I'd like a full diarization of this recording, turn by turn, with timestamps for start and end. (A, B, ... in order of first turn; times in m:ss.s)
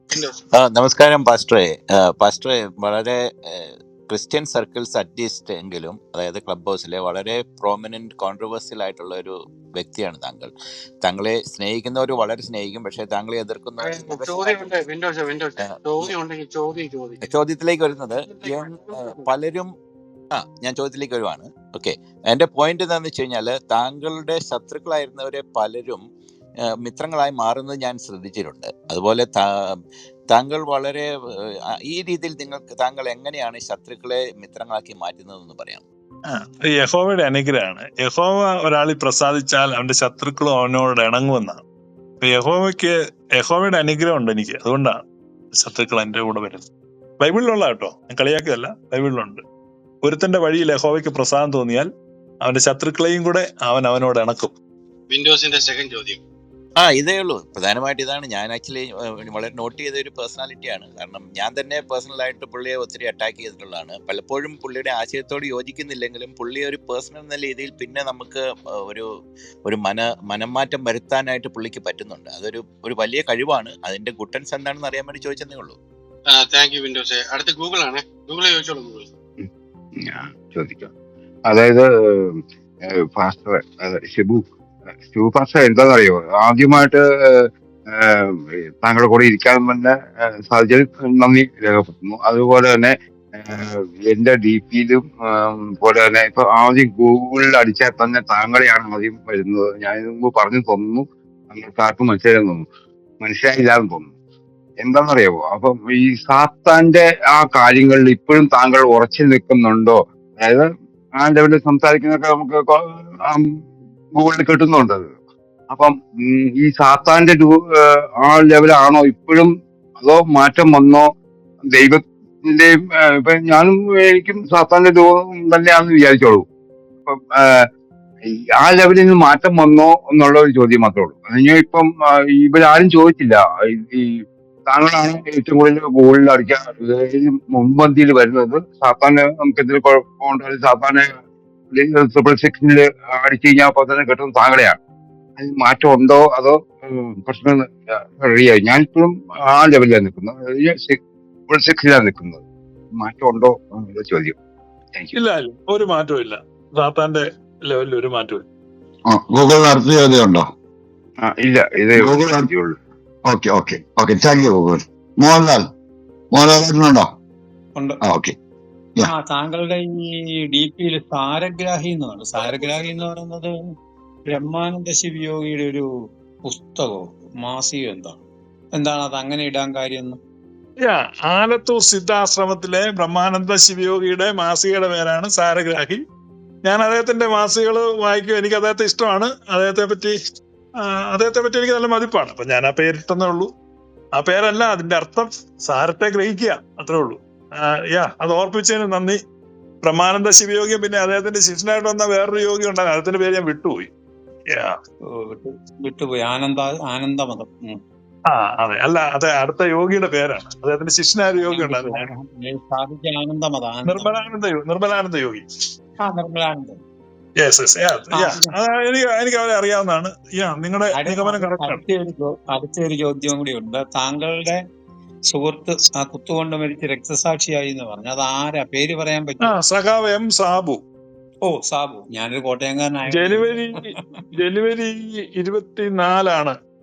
0:00.6-0:10.5 A
0:11.0-0:14.9 A
0:15.6-0:16.1 A
0:17.2-0:19.7 A
0:20.4-0:26.0 A
0:26.8-0:29.8 A
0:30.3-0:31.1 A
0:31.9-0:35.8 A
0:36.3-0:41.6 B
0:42.2-0:45.0 B
0:45.6-0:46.7 B
0:47.2-0:49.4 B
0:50.0-0:51.9 B
0:52.4-0:54.6 B
0:55.2-0:56.1 C
0:56.8-1:09.0 A
1:09.6-1:15.8 A
1:16.6-1:19.0 C
1:20.0-1:20.9 D
1:21.5-1:22.4 D
1:23.0-1:24.5 D
1:25.1-1:42.6 D
1:43.2-1:44.1 D
1:44.8-1:53.5 D
1:54.2-1:55.0 D
1:55.7-2:01.1 D
2:01.7-2:06.4 D
2:07.1-2:07.6 D
2:08.6-2:21.1 D
2:21.7-2:24.8 D
2:25.4-2:31.0 D
2:31.5-2:32.4 D
2:33.0-2:34.4 D
2:35.1-2:38.4 B
2:39.1-2:40.5 E
2:41.2-2:42.7 D
2:41.9-2:42.5 E
2:43.2-2:45.7 E
2:46.3-2:47.1 E
2:48.0-2:48.4 E
2:49.0-2:53.5 F
2:54.3-2:55.8 F
2:56.5-2:58.2 F
2:58.7-3:00.2 F
3:00.8-3:06.0 B
3:06.6-3:10.1 B
3:10.8-3:13.5 B
3:14.2-3:19.2 B
3:19.8-3:23.9 B
3:24.5-3:24.8 B
3:25.2-3:27.8 F
3:28.3-3:32.1 B
3:31.4-3:34.1 F
3:33.8-3:35.4 B
3:36.0-3:36.8 F
3:37.4-3:41.8 B
3:38.1-3:38.5 F
3:41.0-3:44.6 F
3:45.3-3:49.6 F
3:49.4-3:50.8 B
3:51.4-3:53.9 F
3:53.1-3:56.6 B